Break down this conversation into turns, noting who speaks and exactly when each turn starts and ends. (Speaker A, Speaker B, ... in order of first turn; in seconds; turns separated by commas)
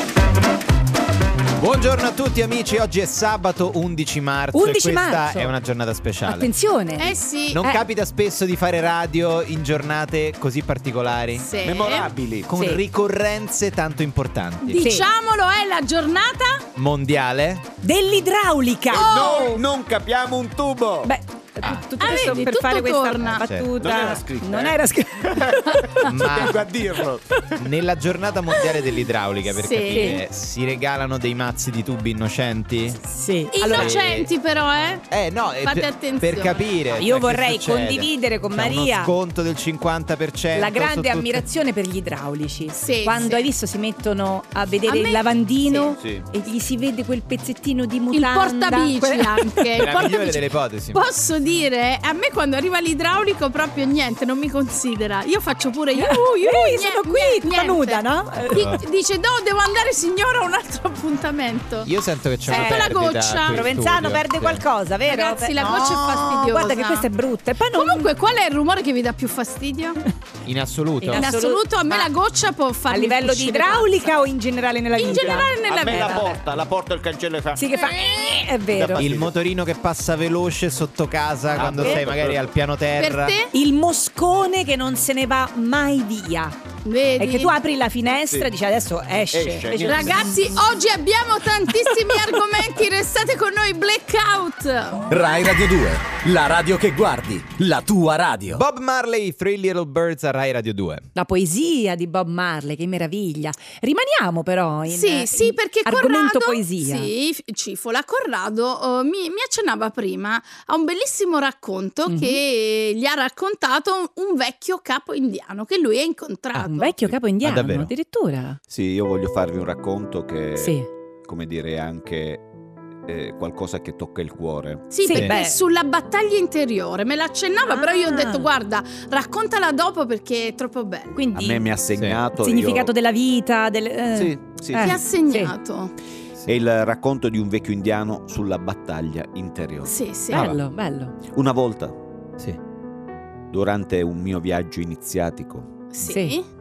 Speaker A: 1.6-6.5, Speaker B: 4.5-5.5, Speaker B: 6.2-7.8, Speaker C: 7.0-7.6, Speaker A: 7.5-11.5, Speaker C: 11.4-12.1, Speaker D: 11.6-12.5, Speaker A: 12.5-14.9, Speaker B: 12.5-12.8, Speaker C: 14.6-16.7, Speaker B: 14.7-15.1, Speaker A: 16.8-17.7, Speaker B: 17.8-19.4, Speaker C: 18.9-19.6, Speaker D: 18.9-21.1, Speaker B: 21.0-26.5, Speaker C: 22.0-23.4, Speaker A: 23.4-23.9, Speaker D: 23.8-27.4, Speaker A: 26.0-26.6, Speaker A: 27.6-33.0, Speaker C: 29.4-30.2, Speaker B: 29.9-30.2, Speaker B: 33.1-34.0, Speaker C: 33.5-35.1, Speaker A: 33.6-34.3, Speaker A: 35.1-41.4, Speaker C: 35.6-36.7, Speaker B: 37.0-39.1, Speaker B: 40.5-49.7, Speaker C: 42.8-43.5, Speaker C: 44.9-45.2, Speaker D: 45.7-46.3, Speaker C: 48.1-61.9, Speaker A: 49.8-51.0, Speaker B: 55.9-58.7, Speaker A: 58.5-58.8, Speaker A: 61.8-64.6, Speaker C: 62.5-63.7, Speaker B: 62.5-62.9, Speaker B: 63.5-68.1, Speaker C: 65.1-67.1, Speaker C: 67.7-70.0, Speaker A: 70.4-71.2, Speaker B: 71.0-72.1, Speaker C: 71.1-74.1, Speaker B: 72.9-76.4, Speaker C: 75.0-76.3, Speaker D: 75.6-77.8, Speaker B: 77.5-79.1, Speaker D: 78.7-79.3, Speaker A: 79.0-83.3, Speaker B: 81.5-82.0, Speaker D: 81.5-82.5, Speaker C: 83.0-83.5, Speaker B: 83.5-86.5, Speaker C: 86.8-87.5, Speaker B: 87.2-90.4, Speaker D: 89.3-90.5, Speaker C: 89.8-95.1, Speaker E: 95.1-98.6, Speaker A: 98.5-101.1, Speaker B: 101.1-107.1, Speaker C: 104.9-116.9, Speaker B: 112.1-112.4, Speaker B: 116.5-118.6, Speaker A: 117.1-117.9, Speaker D: 118.7-122.4, Speaker B: 120.6-120.9, Speaker D: 123.0-125.0, Speaker C: 124.9-131.2, Speaker B: 125.0-125.6, Speaker B: 127.7-128.5, Speaker B: 131.1-131.7, Speaker D: 131.3-132.9, Speaker A: 131.9-132.2, Speaker B: 132.3-135.5, Speaker D: 134.1-135.0, Speaker C: 134.8-135.9, Speaker D: 136.5-139.9, Speaker C: 139.8-140.5, Speaker B: 140.3-141.1, Speaker A: 140.3-140.6, Speaker D: 141.3-141.9, Speaker D: 143.5-145.7, Speaker C: 145.9-146.5, Speaker B: 146.0-146.4